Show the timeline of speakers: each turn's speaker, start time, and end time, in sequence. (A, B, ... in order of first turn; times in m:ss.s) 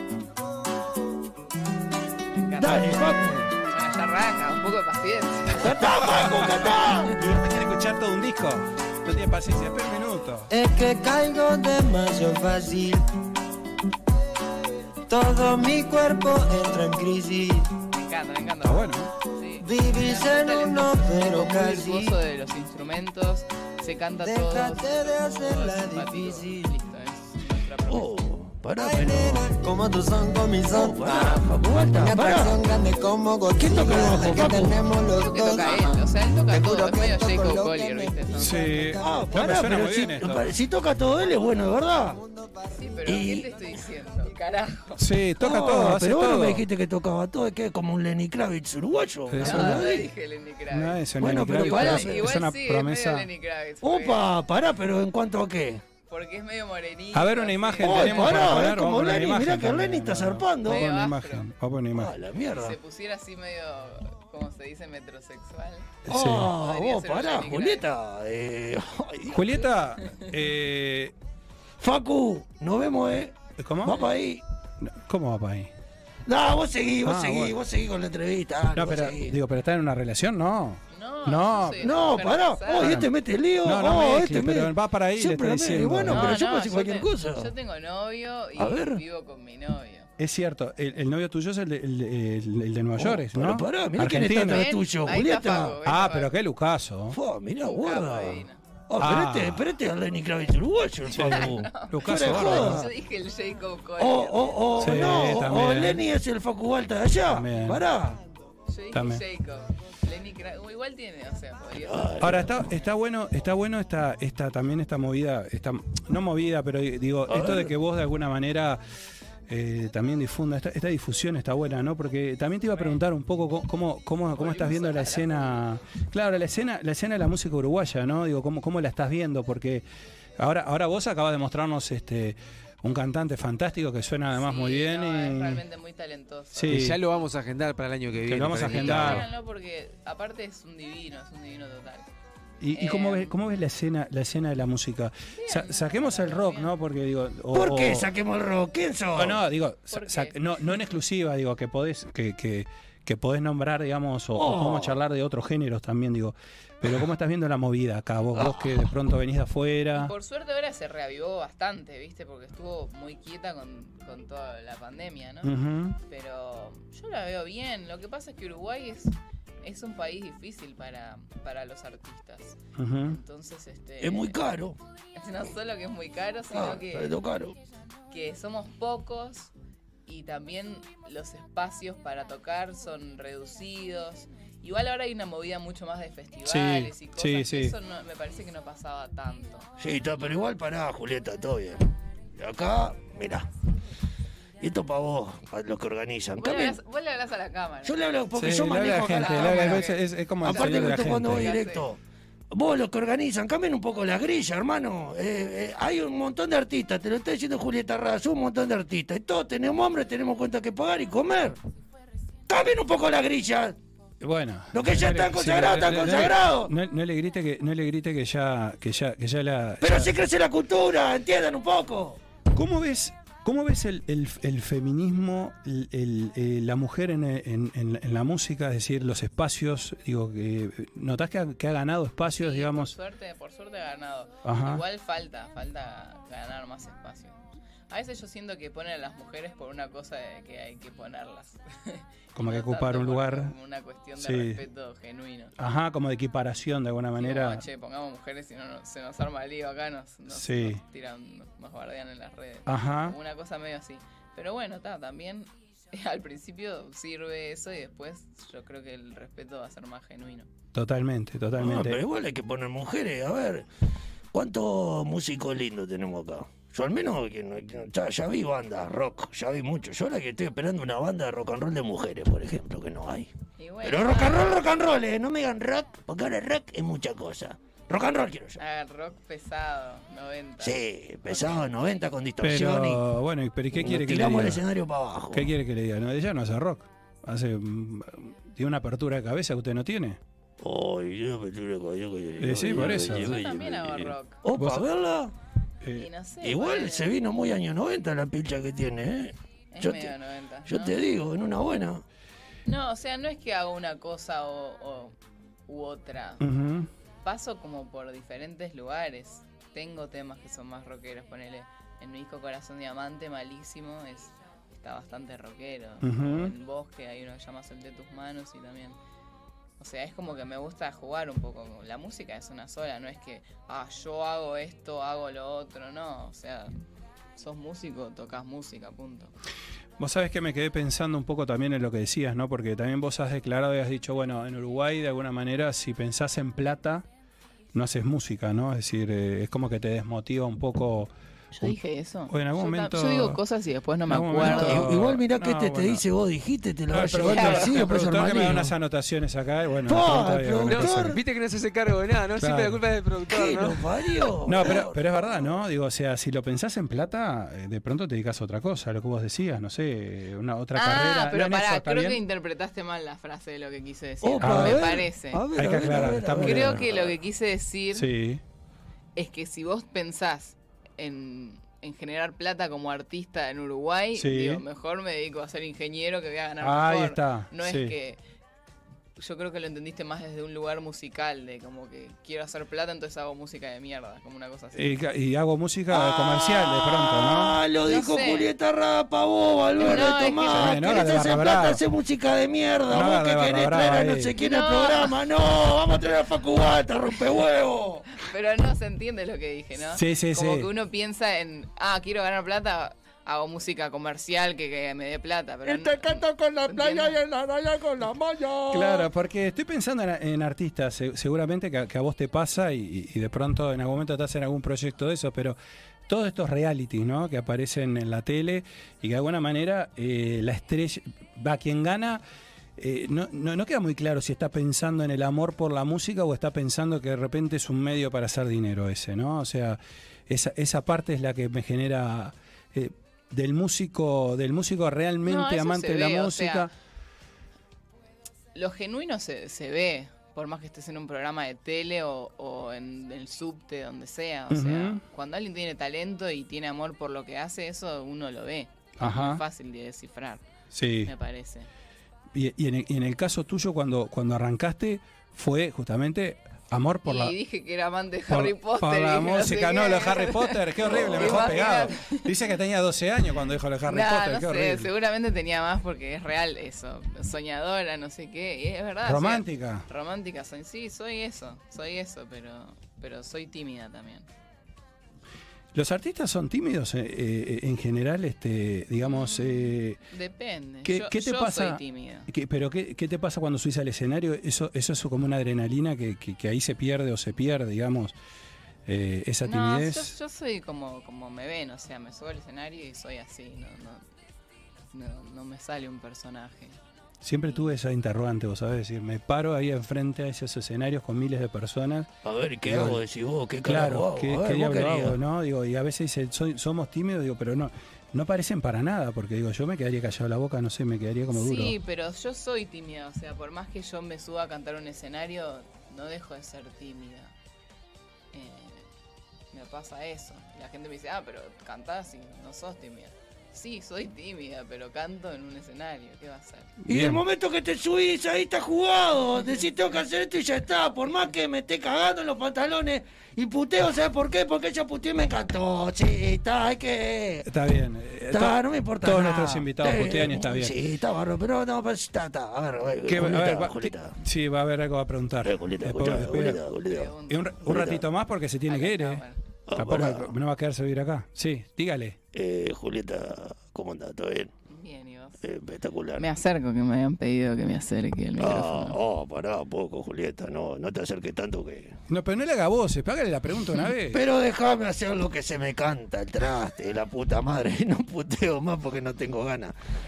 0:02.3-0:06.2 A
0:02.6-0:03.5 B
0:05.5-0:07.2 B
0:06.0-0:06.5 C
0:07.1-0:10.5 C
0:10.5-0:13.0 D
0:15.1-0:17.7 D
0:17.9-0:28.1 A
0:18.6-0:19.1 C
0:19.6-0:22.2 D
0:24.1-0:26.7 D
0:27.9-0:29.4 B
0:28.8-0:39.4 D
0:30.7-0:32.6 B
0:33.6-0:34.8 B
0:35.1-0:38.8 A
0:38.4-0:40.5 C
0:39.0-0:42.2 B
0:42.1-0:42.9 D
0:42.7-0:45.0 A
0:43.1-0:43.5 B
0:45.0-0:46.7 C
0:45.4-0:50.1 B
0:49.3-0:50.0 C
0:49.4-0:54.3 A
0:50.7-0:53.3 C
0:51.2-0:52.3 B
0:53.8-0:55.8 B
0:56.1-0:58.6 A
0:57.1-1:02.2 C
0:57.8-1:00.9 B
1:00.6-1:01.5 A
1:01.9-1:02.8 B
1:02.5-1:07.9 A
1:06.0-1:06.5 C
1:06.1-1:09.6 B
1:09.2-1:11.1 C
1:10.0-1:10.3 A
1:11.8-1:14.4 B
1:13.6-1:14.0 C
1:14.8-1:15.7 C
1:16.3-1:19.4 B
1:17.0-1:17.6 C
1:18.7-1:21.9 C
1:20.9-1:23.1 A
1:21.8-1:27.5 B
1:22.7-1:26.4 C
1:26.1-1:30.1 A
1:28.6-1:29.0 B
1:30.2-1:34.7 C
1:33.0-1:35.8 B
1:34.4-1:36.3 A
1:35.8-1:37.2 C
1:37.1-1:42.9 B
1:37.6-1:38.6 A
1:39.0-1:39.7 C
1:41.1-1:42.9 C
1:41.1-1:45.6 A
1:44.0-1:48.2 B
1:44.8-1:46.0 C
1:47.3-1:47.8 C
1:48.7-1:52.6 A
1:48.9-1:49.2 C
1:51.8-1:52.6 B
1:52.2-1:58.8 C
1:57.3-1:57.7 B
1:59.5-2:09.8 C
2:04.4-2:05.6 A
2:10.4-2:15.6 C
2:14.3-2:16.8 A
2:16.5-2:17.0 C
2:16.7-2:19.3 E
2:18.2-2:19.3 C
2:18.6-2:22.1 A
2:22.6-2:28.1 C
2:22.7-2:23.4 A
2:25.3-2:26.7 A
2:27.5-2:29.4 B
2:29.1-2:40.1 C
2:29.9-2:30.8 A
2:34.4-2:35.0 B
2:38.4-2:38.8 B
2:39.9-2:54.4 A
2:45.4-2:46.0 C
2:52.8-2:53.2 C
2:54.0-2:54.8 B
2:55.1-2:57.2 A
2:56.5-2:57.6 B
2:58.1-2:59.5 A
3:00.1-3:09.7 A
3:06.4-3:07.8 C
3:09.8-3:13.5 B
3:14.6-3:16.8 B
3:16.4-3:18.0 A
3:17.8-3:22.0 B
3:18.3-3:21.5 C
3:19.1-3:21.9 A
3:22.5-3:31.6 B
3:32.5-3:33.8 B
3:34.2-3:40.1 C
3:34.7-3:36.7 B
3:39.8-3:42.2 B
3:42.5-3:52.9 C
3:52.4-4:05.6 A
3:54.4-3:54.8 C
4:02.4-4:03.5 C
4:04.2-4:04.6 C
4:05.6-4:07.6 C
4:07.2-4:20.5 A
4:10.3-4:10.8 C
4:12.6-4:13.2 C
4:20.7-4:22.0 C
4:21.6-4:23.6 B
4:24.3-4:33.3 B
4:33.6-4:34.6 A
4:33.8-4:38.6 B
4:38.6-4:41.6 A
4:40.6-4:43.0 B
4:42.4-4:44.6 C
4:43.7-4:45.5 B
4:45.3-4:50.2 C
4:50.6-4:55.3 B
4:52.4-4:53.4 C
4:52.6-4:54.4 A
4:54.5-4:54.9 C
4:55.8-4:56.1 C
4:55.9-4:57.1 A
4:56.4-5:00.1 B
4:59.7-5:01.0 A
5:00.7-5:02.0 B
5:02.6-5:05.2 A
5:05.7-5:06.4 A
5:06.4-5:06.9 C
5:07.2-5:19.0 A
5:16.0-5:16.5 C
5:19.8-5:26.7 A
5:27.4-5:29.3 A
5:30.0-5:37.1 C
5:37.7-5:43.4 C
5:41.6-5:45.0 A
5:44.1-5:46.0 C
5:44.4-5:48.7 B
5:46.9-5:51.2 C
5:47.2-5:47.7 A
5:49.9-5:51.2 B
5:50.6-5:54.3 E
5:52.4-5:52.8 C
5:53.3-5:55.5 B
5:54.5-6:02.2 C
6:00.7-6:05.5 A
6:04.2-6:07.1 B
6:04.4-6:05.0 C
6:05.5-6:06.9 C
6:06.4-6:08.1 A
6:07.9-6:08.4 C
6:09.2-6:18.2 A
6:14.2-6:14.6 C
6:16.6-6:17.9 C
6:19.2-6:24.9 A
6:24.8-6:27.6 C
6:25.9-6:38.1 B
6:27.8-6:28.5 A
6:29.8-6:31.0 A
6:30.5-6:31.8 C
6:32.9-6:34.4 C
6:34.4-6:35.2 A
6:38.1-6:47.2 A
6:39.9-6:40.7 C
6:45.6-6:49.1 B
6:48.7-6:55.6 C
6:56.1-7:02.2 C
7:02.8-7:16.7 C
7:15.2-7:16.7 A
7:18.5-7:30.4 A
7:24.5-7:25.0 C
7:29.0-7:29.4 C
7:30.7-7:31.1 C
7:31.0-7:31.7 A
7:32.3-7:37.4 C
7:37.0-7:42.3 A
7:38.3-7:44.9 C
7:40.9-7:41.7 B
7:43.8-7:54.3 A
7:49.0-7:49.9 C
7:55.7-8:00.0 C
7:59.0-8:02.3 A
8:00.8-8:08.2 C
8:08.9-8:10.2 C
8:09.4-8:14.0 A
8:14.9-8:16.8 A
8:17.2-8:22.1 C
8:22.2-8:25.2 B
8:22.6-8:23.0 C
8:23.6-8:31.8 C
8:31.3-8:37.3 A
8:38.3-8:38.9 A
8:39.5-8:46.8 A
8:46.8-8:47.2 C
8:46.9-8:57.5 B
8:57.4-9:00.8 C
8:58.3-9:04.2 B
9:03.0-9:06.6 C
9:05.4-9:08.0 B
9:06.8-9:07.6 A
9:07.3-9:12.2 C
9:08.7-9:09.4 A
9:09.7-9:10.3 B
9:12.3-9:14.5 B
9:14.7-9:15.4 A
9:15.4-9:16.2 B
9:16.2-9:19.0 A
9:18.4-9:22.0 B
9:22.1-9:24.2 C
9:24.1-9:29.8 B